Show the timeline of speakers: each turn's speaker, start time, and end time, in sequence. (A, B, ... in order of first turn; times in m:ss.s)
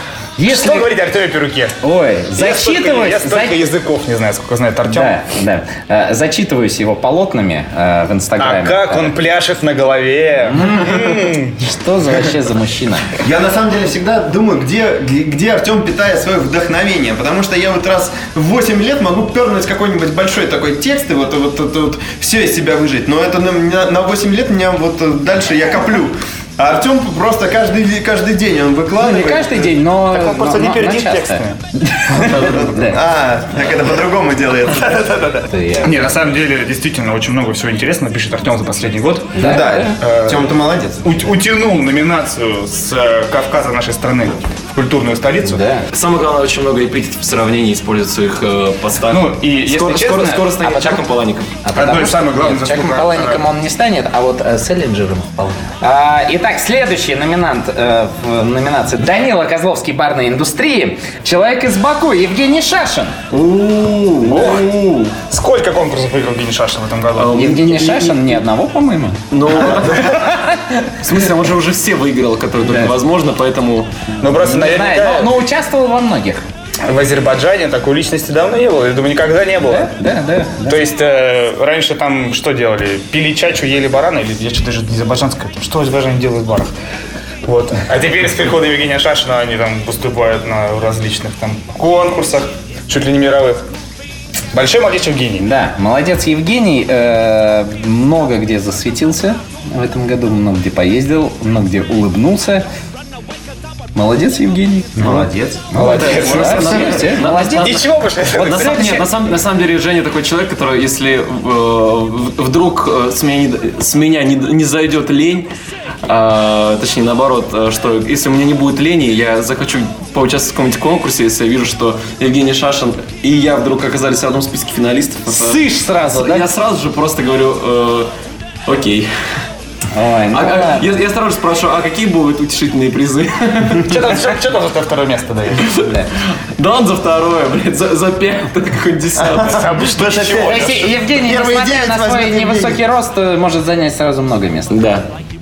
0:00.4-0:00.9 A
0:00.4-0:01.8 B
0:01.8-0:03.6 A
0:02.3-0:05.2 B
0:04.9-0:09.2 A
0:08.4-0:11.6 B
0:10.5-0:13.1 A
0:13.2-0:29.8 C
0:29.0-0:33.0 A
0:30.0-0:31.6 B
0:32.1-0:35.3 C
0:34.9-0:45.6 B
0:35.5-0:36.0 A
0:39.4-0:40.0 A
0:39.4-0:41.1 C
0:45.4-0:45.9 A
0:45.9-0:51.6 D
0:49.1-0:50.4 B
0:50.4-0:51.0 A
0:51.6-1:03.2 A
0:51.7-0:53.4 B
1:03.3-1:04.6 D
1:04.2-1:07.4 B
1:07.2-1:08.4 D
1:07.3-1:10.6 A
1:09.3-1:10.3 D
1:11.0-1:13.9 D
1:12.7-1:13.0 A
1:14.2-1:15.4 B
1:14.4-1:16.4 A
1:16.9-1:19.9 B
1:19.7-1:20.9 A
1:20.7-1:26.7 B
1:27.4-1:33.6 B
1:34.5-1:35.5 B
1:35.4-1:42.7 A
1:44.0-1:47.8 A
1:45.0-1:45.7 C
1:45.8-1:47.1 B
1:45.8-1:55.5 D
1:47.6-1:49.1 B
1:56.1-2:08.1 D
2:05.3-2:06.5 A
2:08.7-2:09.1 D
2:09.9-2:10.9 A
2:10.3-2:14.0 D
2:13.8-2:15.7 B
2:15.6-2:16.0 D
2:16.6-2:19.8 D
2:19.4-2:20.9 B
2:19.7-2:22.8 C
2:20.4-2:25.0 A
2:24.7-2:25.0 D